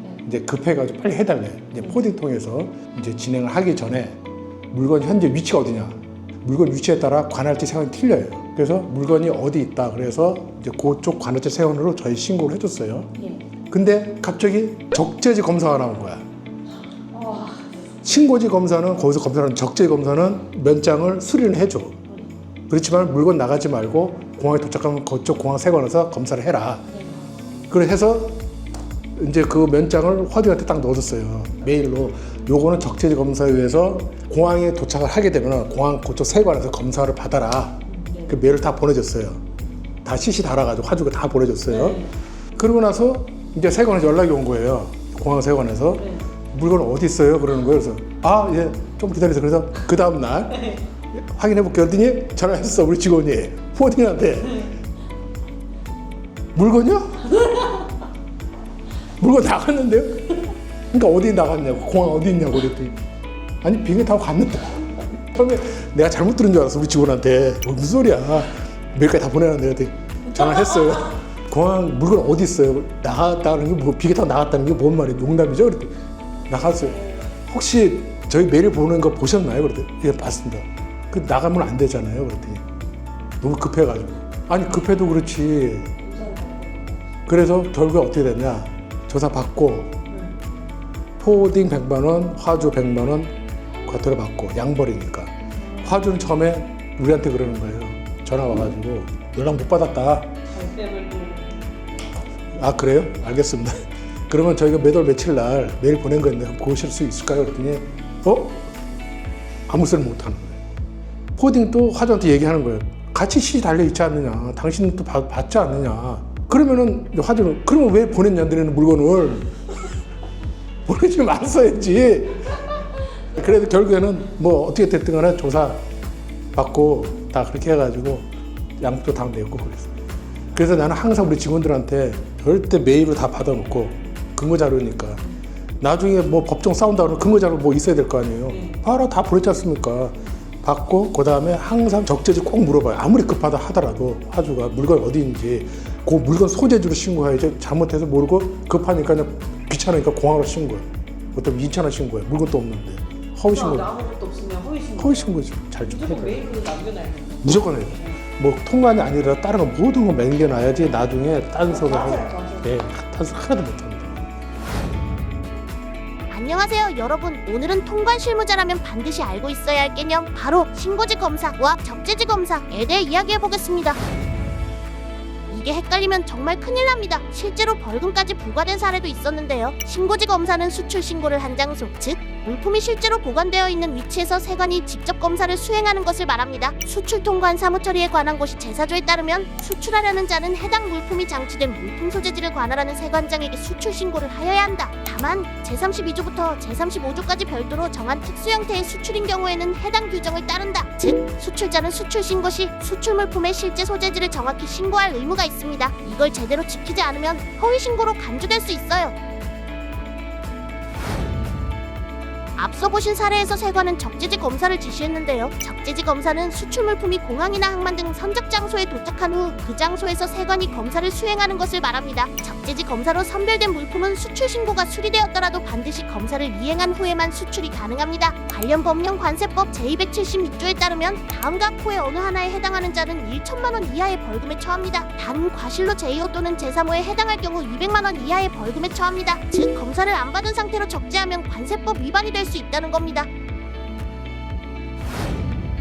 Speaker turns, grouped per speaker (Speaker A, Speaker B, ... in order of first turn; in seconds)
Speaker A: 0.2-4.2, 4.7-13.1, 13.7-16.2, 18.0-22.0, 22.7-26.9, 27.7-28.5, 29.1-39.4, 40.0-42.0, 42.5-54.7, 56.5-57.4, 59.2-63.0, 63.6-76.0, 76.5-82.6, 83.4-86.0, 87.2-90.0, 91.2-93.3, 93.8-100.3, 102.5-108.7, 109.7-110.6, 111.3-119.6, 120.8-122.6, 123.3-125.8, 126.5-128.3, 128.8-129.9, 130.5-135.2, 135.8-153.9, 155.0-156.4, 157.4-164.3
Speaker B: 17.1-17.7, 38.0-38.3, 41.7-42.1, 46.0-46.3, 86.0-87.0, 100.5-101.7, 138.5-138.8, 153.5-155.3, 155.8-157.5, 161.7-162.7
Speaker C: 166.3-174.0, 175.5-209.2, 212.6-243.3